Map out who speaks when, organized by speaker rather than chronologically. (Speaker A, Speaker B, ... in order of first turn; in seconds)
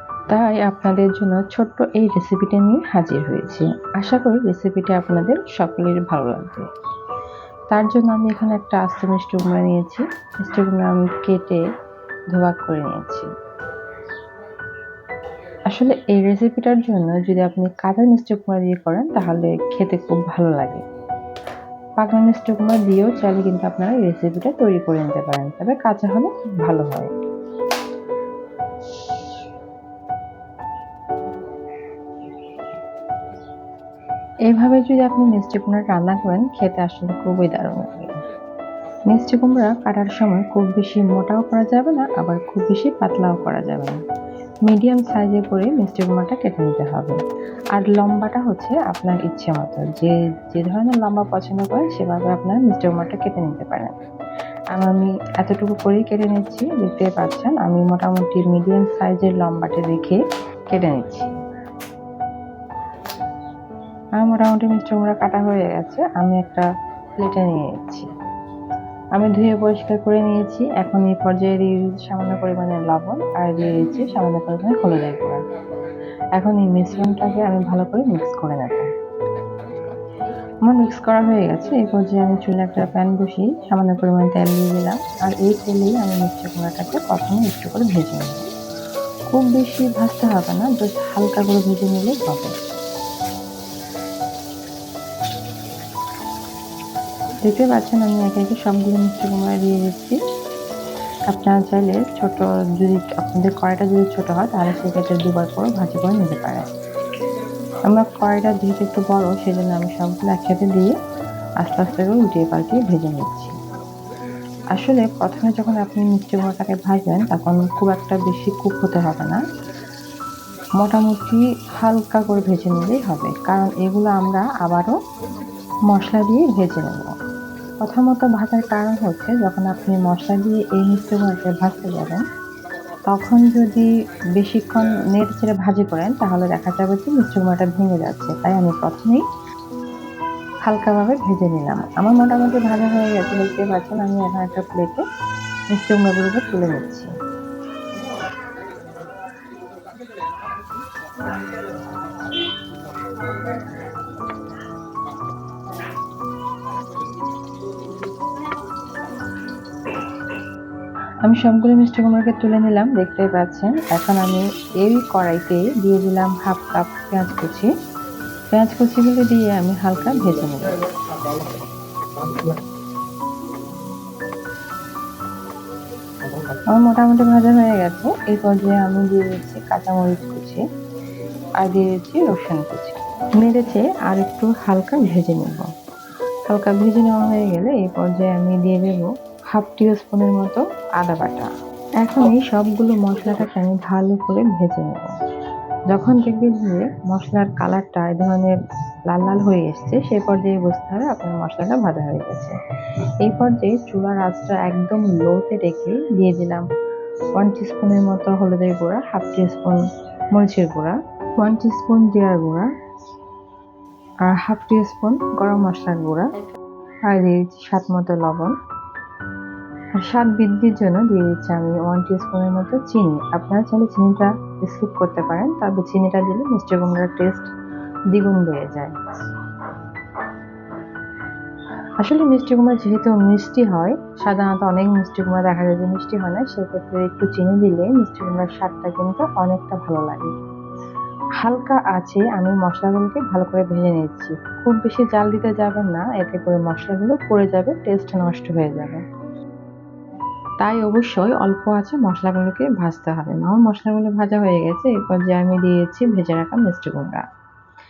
Speaker A: 0.3-6.7, 7.7-11.6, 12.3-13.3, 15.7-20.8, 22.0-27.1, 34.5-38.1, 39.1-44.0, 44.6-47.2, 47.7-54.0, 54.7-61.3, 64.2-66.6, 67.2-68.1, 69.2-75.4, 76.4-78.9, 80.7-88.5, 89.3-92.5, 97.4-100.2, 101.3-106.7, 107.9-111.0, 111.6-113.5, 114.7-119.4, 120.8-125.0, 125.9-127.1, 127.8-132.2, 133.1-139.2, 140.7-145.0, 145.7-147.1, 161.2-167.7, 168.5-170.8, 176.7-180.6, 181.6-185.7, 186.5-191.5, 192.0-195.1, 195.9-198.6, 199.1-202.6, 203.2-206.6, 207.4-209.8, 210.3-212.7, 214.2-216.3, 217.1-218.5, 220.0-227.5, 228.1-228.9, 232.0-240.3, 241.4-249.0, 250.6-257.2